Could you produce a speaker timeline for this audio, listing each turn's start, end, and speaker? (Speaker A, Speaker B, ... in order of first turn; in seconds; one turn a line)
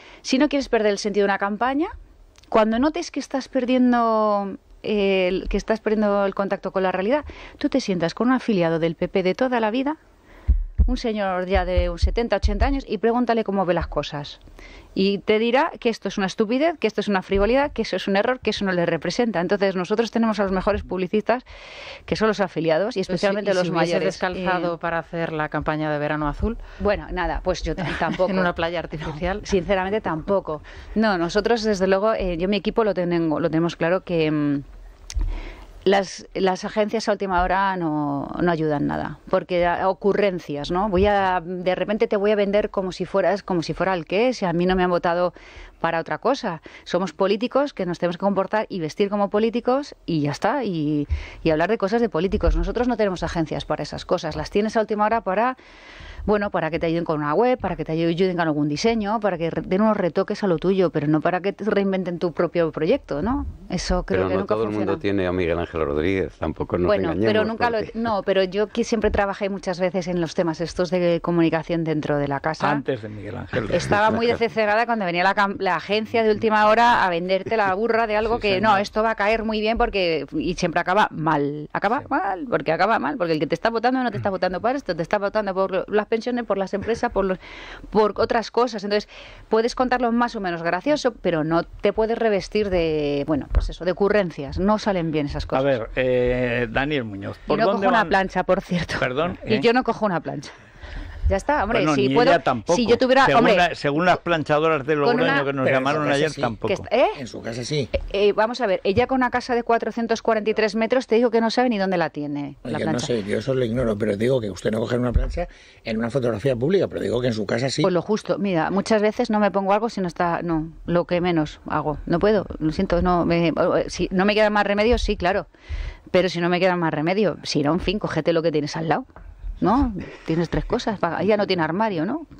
Speaker A: 0.2-1.9
Speaker A: 2.5-10.0
Speaker A: 10.9-14.4
Speaker A: 14.9-21.4
Speaker A: 22.1-24.7
Speaker B: 23.1-26.6
Speaker A: 26.8-28.5
Speaker B: 27.8-29.5
Speaker A: 29.4-34.6
Speaker A: 35.8-55.5
Speaker A: 56.2-65.0
Speaker C: 64.1-67.9
Speaker A: 66.8-72.8
Speaker D: 72.6-74.0
Speaker A: 73.7-87.4
Speaker D: 78.3-78.8
Speaker A: 87.9-95.7
Speaker D: 95.5-98.2
Speaker A: 97.5-100.5
Speaker D: 99.0-99.7
Speaker A: 101.3-103.7
Speaker D: 101.7-106.9
Speaker A: 105.0-105.5
Speaker E: 105.4-106.5
Speaker A: 106.6-107.2
Speaker E: 107.1-107.9
Speaker A: 107.9-113.1
Speaker E: 112.6-117.9
Speaker A: 117.8-125.5
Speaker A: 126.1-129.1
Speaker A: 129.6-132.2